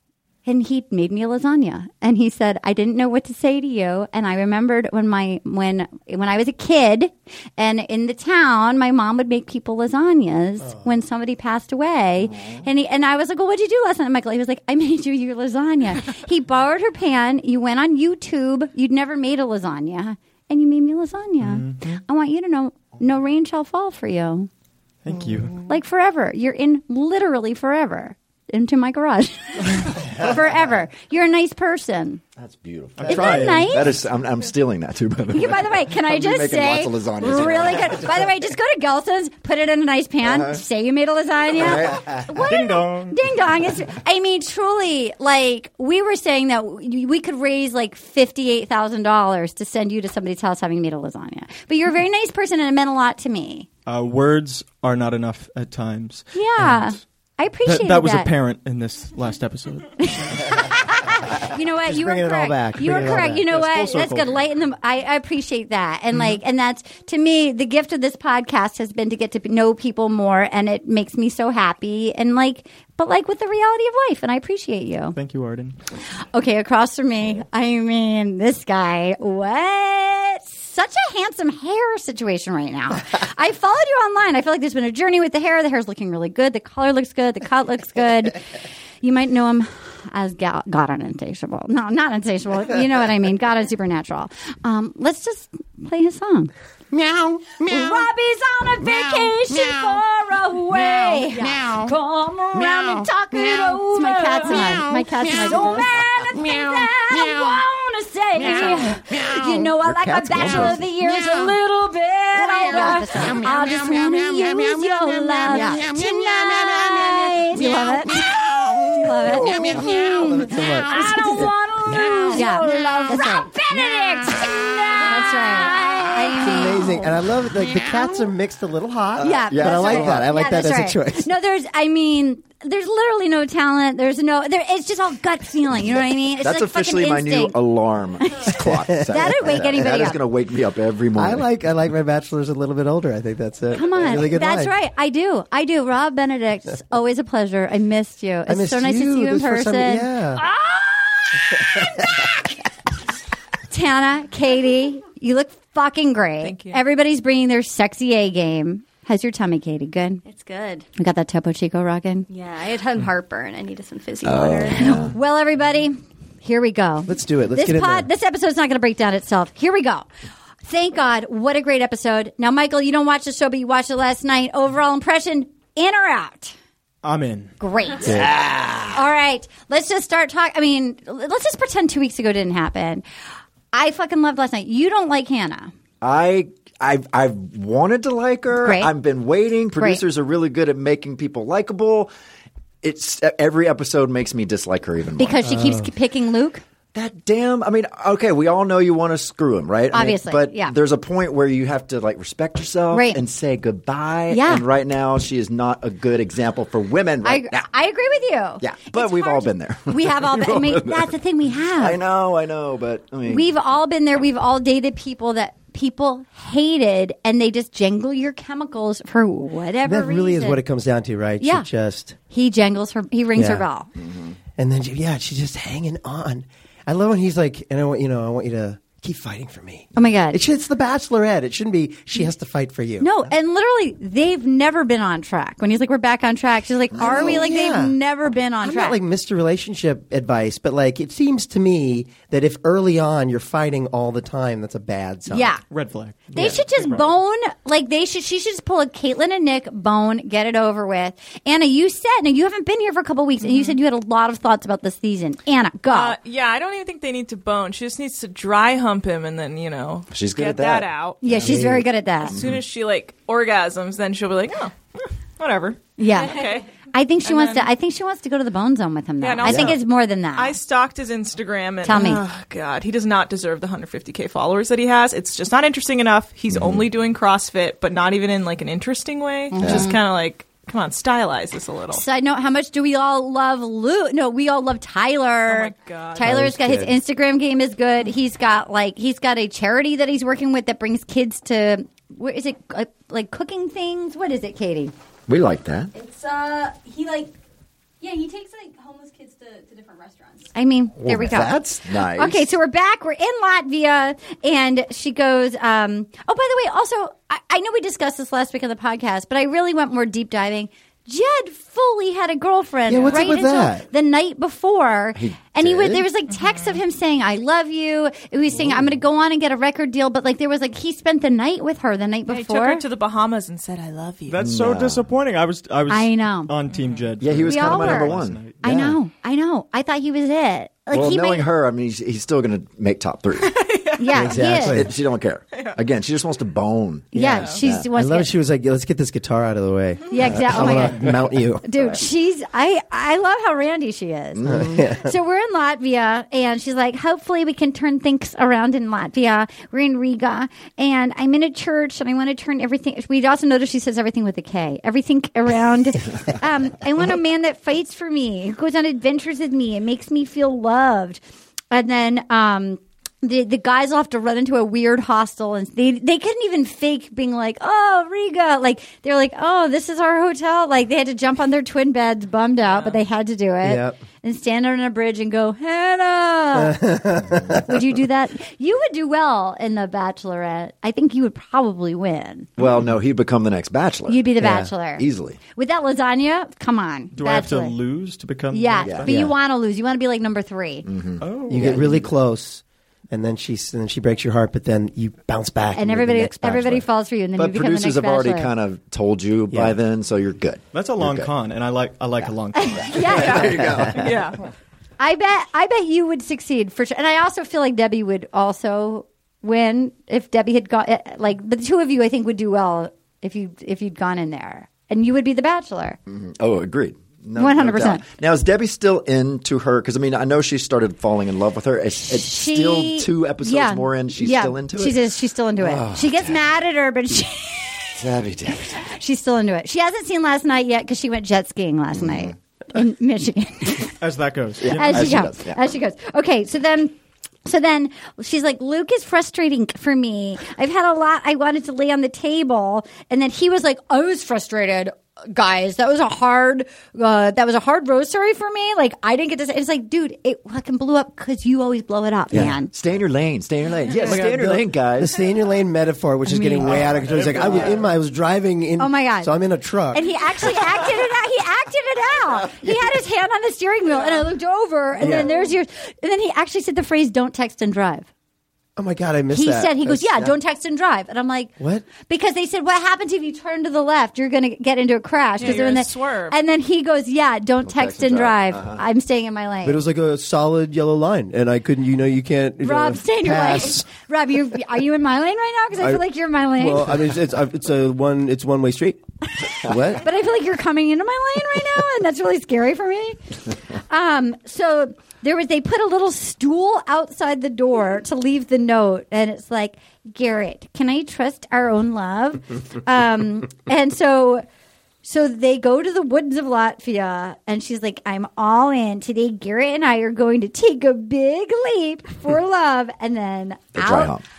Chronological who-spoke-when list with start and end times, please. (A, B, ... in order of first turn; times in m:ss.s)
0:00.4-0:24.5 A
0:12.2-0:12.6 B
0:21.4-0:22.0 C
0:25.0-0:25.6 C
0:25.7-0:32.2 A
0:32.4-0:38.2 B
0:33.0-0:33.8 C
0:33.1-0:34.0 A
0:35.3-0:53.7 A
0:40.2-0:40.6 B
0:41.6-0:42.2 B
0:42.4-0:43.2 C
0:53.9-0:56.9 C
0:56.4-0:58.3 A
0:57.6-1:00.6 C
1:00.0-1:15.2 A
1:01.8-1:03.4 D
1:02.8-1:04.4 C
1:15.1-1:15.8 C
1:16.3-1:28.4 A
1:29.0-1:36.5 A
1:37.5-2:00.3 A
1:49.8-1:50.9 B
1:59.3-1:59.8 B
2:00.0-2:03.5 D
2:00.9-2:07.0 A
2:05.2-2:11.3 D
2:09.2-2:10.4 B
2:09.2-2:17.6 A
2:15.7-2:21.4 B
2:18.6-2:19.4 D
2:19.1-2:20.2 A
2:21.2-2:24.7 D
2:23.7-2:31.8 A
2:28.5-2:30.4 D
2:33.7-2:40.2 A
2:36.4-2:36.8 E
2:40.2-2:40.8 F
2:41.0-2:42.3 A
2:42.3-2:44.9 F
2:44.2-2:45.2 B
2:44.8-2:50.1 A
2:47.1-2:48.1 D
2:50.7-2:56.5 A
2:57.0-2:57.5 C
2:57.6-3:03.0 A
2:58.0-2:59.0 B
2:58.0-2:58.3 D
3:03.7-3:05.7 A
3:06.0-3:12.1 B
3:08.6-3:08.9 A
3:09.8-3:10.0 A
3:12.8-3:15.6 B
3:15.2-3:16.6 A
3:15.5-3:15.9 D
3:16.9-3:27.7 B
3:19.9-3:20.7 A
3:22.9-3:23.2 A
3:24.3-3:24.6 A
3:27.2-3:32.0 A
3:28.6-3:31.2 B
3:31.8-3:33.5 B
3:33.3-3:40.6 A
3:39.8-3:42.2 D
3:41.4-3:41.7 A
3:42.3-3:43.9 A
3:43.3-3:43.6 D
3:44.0-3:44.3 B
3:44.6-3:53.1 D
3:49.9-3:50.4 A
3:53.0-3:59.0 A
3:56.9-3:57.4 B
3:57.0-3:58.0 D
3:58.6-4:05.5 D
4:05.3-4:05.6 A
4:05.7-4:07.1 C
4:06.3-4:16.2 A
4:13.4-4:13.8 E
4:15.9-4:21.2 E
4:20.1-4:22.6 B
4:21.2-4:22.4 A
4:21.4-4:21.8 D
4:22.2-4:26.7 E
4:26.0-4:26.4 A
4:26.9-4:30.6 A
4:27.2-4:27.7 E
4:29.2-4:29.8 E
4:29.4-4:29.8 B
4:30.3-4:42.0 E
4:31.8-4:32.2 A
4:36.5-4:36.9 B
4:39.5-4:40.0 A
4:39.6-4:39.9 B
4:41.9-4:54.9 A
4:45.5-4:46.3 E
4:46.2-4:47.0 D
4:55.3-4:55.9 B
4:55.9-4:57.3 F
4:58.0-5:00.5 F
5:00.5-5:01.6 A
5:01.0-5:02.5 B
5:02.1-5:22.8 A
5:12.8-5:13.9 D
5:15.2-5:16.0 B
5:22.3-5:24.4 E
5:24.3-5:28.8 C
5:24.4-5:25.1 B
5:25.9-5:26.5 A
5:26.7-5:27.1 E
5:27.2-5:28.4 B
5:27.4-5:31.4 A
5:28.6-5:28.9 D
5:30.9-5:37.9 B
5:33.4-5:34.0 E
5:34.0-5:34.8 A
5:34.1-5:34.9 D
5:35.5-5:35.8 E
5:37.1-5:38.3 A
5:37.1-5:41.8 D
5:40.1-6:16.8 A
5:40.5-5:42.0 B
5:44.4-5:44.8 B
5:44.4-5:45.1 D
6:12.6-6:13.0 E
6:13.6-6:14.0 D
6:16.5-6:17.6 D
6:17.5-6:22.5 A
6:22.6-6:25.4 B
6:24.1-6:27.8 A
6:24.4-6:24.7 D
6:27.1-6:29.2 C
6:28.5-6:30.8 A
6:28.8-6:29.2 B
6:29.1-6:29.3 D
6:30.8-6:32.0 B
6:31.2-6:32.0 C
6:31.5-6:36.8 D
6:35.7-6:38.5 A
6:37.4-6:41.3 B
6:39.5-6:39.8 D
6:40.7-6:43.6 C
6:42.2-6:44.2 B
6:42.5-6:43.5 A
6:43.1-6:44.4 E
6:43.6-6:44.0 D
6:45.0-6:56.0 A
6:56.1-7:05.0 B
6:57.4-6:58.0 A
7:02.0-7:13.9 A
7:05.6-7:06.4 B
7:08.0-7:08.8 B
7:11.9-7:12.3 B
7:14.0-7:15.3 C
7:14.6-7:16.9 A
7:14.6-7:15.6 B
7:17.4-7:32.7 A
7:32.3-7:35.2 B
7:33.9-7:40.0 D
7:36.3-7:36.8 A
7:36.6-7:37.8 C
7:36.7-7:37.8 B
7:38.8-7:39.3 A
7:39.9-7:48.1 A
7:42.4-7:42.9 B
7:45.0-7:45.3 D
7:48.8-7:50.3 D
7:49.3-7:59.8 A
7:51.6-7:51.9 D
7:55.4-7:56.4 E
7:57.6-7:58.8 B
7:59.6-8:03.9 D
8:02.6-8:07.0 A
8:05.8-8:06.0 D
8:06.6-8:09.0 D
8:09.6-8:10.0 D
8:10.0-8:13.2 A
8:13.9-8:24.4 A
8:25.0-8:34.1 A
8:33.8-8:34.2 B